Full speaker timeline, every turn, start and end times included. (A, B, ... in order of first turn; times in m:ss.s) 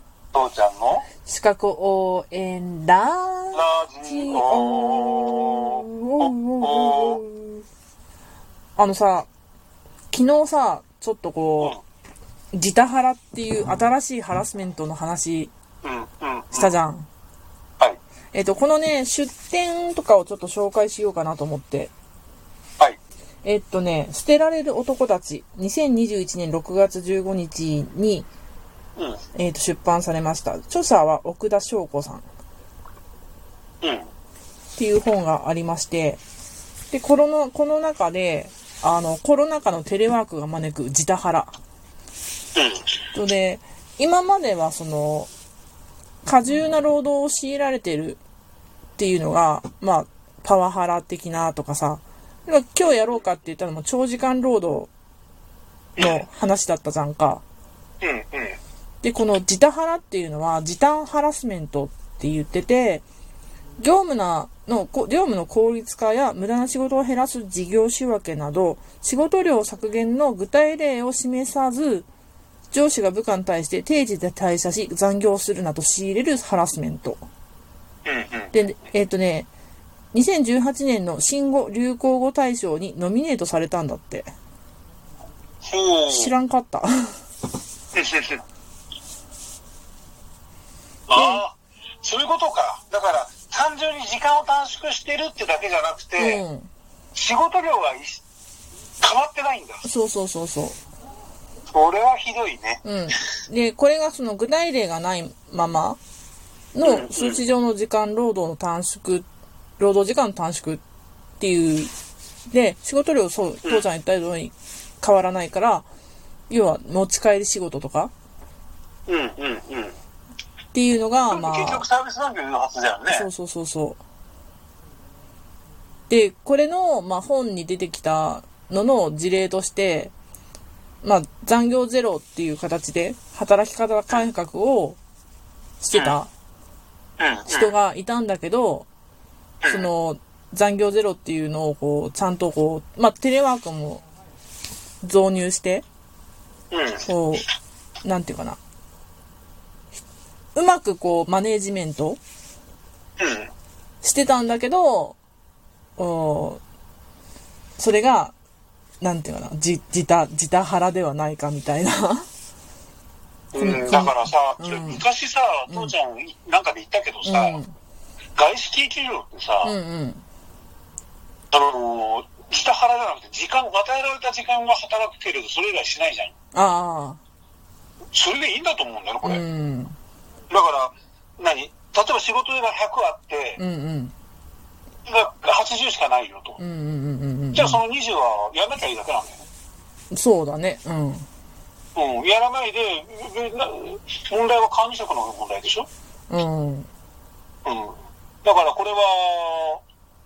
0:00.3-0:01.0 A
0:01.2-0:07.6 B
0:03.5-0:07.2 A
0:08.8-0:09.3 B
0:10.1-0:11.8 B
0:12.5-0:15.5 B
0:15.8-0:16.7 A
0:16.5-0:17.1 B
0:18.3-0:21.9 B
0:23.4-0:28.3 B
0:29.4-0:32.3 B
0:33.8-0:34.1 A
0:34.8-0:36.2 B
0:36.9-0:41.5 B
0:42.6-0:42.9 A
0:43.1-0:45.3 B
0:46.3-0:48.2 B
0:49.0-0:54.9 B
0:56.0-0:56.2 A
0:56.0-0:57.4 B
0:58.0-0:58.6 A
0:59.0-1:03.0 B
1:03.8-1:12.1 B
1:12.7-1:17.2 B
1:18.0-1:18.5 A
1:18.5-1:19.5 B
1:20.1-1:24.3 B
1:25.6-1:26.3 A
1:26.1-1:27.1 B
1:27.9-1:28.4 A
1:31.1-1:36.4 A
1:31.1-1:31.4 B
1:36.2-1:36.7 B
1:37.1-1:38.2 A
1:39.0-1:39.8 A
1:39.8-1:40.8 B
1:41.7-1:42.8 A
1:42.8-1:46.0 B
1:46.7-1:49.2 B
1:46.8-1:47.4 A
1:49.8-1:50.8 B
1:51.4-1:51.9 B
1:52.5-1:55.9 B
1:56.5-1:58.1 B
1:59.1-2:00.0 A
2:00.7-2:01.8 B
2:01.3-2:03.3 A
2:03.1-2:04.0 B
2:06.1-2:10.1 B
2:11.0-2:15.0 B
2:15.8-2:16.3 B
2:17.2-2:17.7 A
2:17.5-2:18.9 B
2:19.6-2:19.9 A
2:19.7-2:24.0 B
2:25.0-2:25.8 B
2:26.7-2:27.1 A
2:27.1-2:27.5 B
2:28.0-2:28.6 B
2:30.5-2:32.2 B
2:33.2-2:33.5 A
2:34.0-2:35.2 B
2:36.0-2:36.6 B
2:37.8-2:38.3 B
2:39.0-2:42.2 B
2:43.5-2:47.6 A
2:43.6-2:45.0 B
2:47.2-2:47.7 B
2:48.4-2:49.7 A
2:49.6-2:50.2 B
2:51.5-2:56.3 A
2:56.5-2:57.2 B
2:58.1-2:59.4 A
2:59.2-3:00.0 B
3:00.5-3:03.6 A
3:03.6-3:04.1 B
3:05.0-3:06.6 A
3:06.6-3:07.8 B
3:07.5-3:09.4 A
3:10.1-3:11.2 B
3:11.9-3:15.9 A
3:16.3-3:16.9 B
3:17.6-3:19.8 A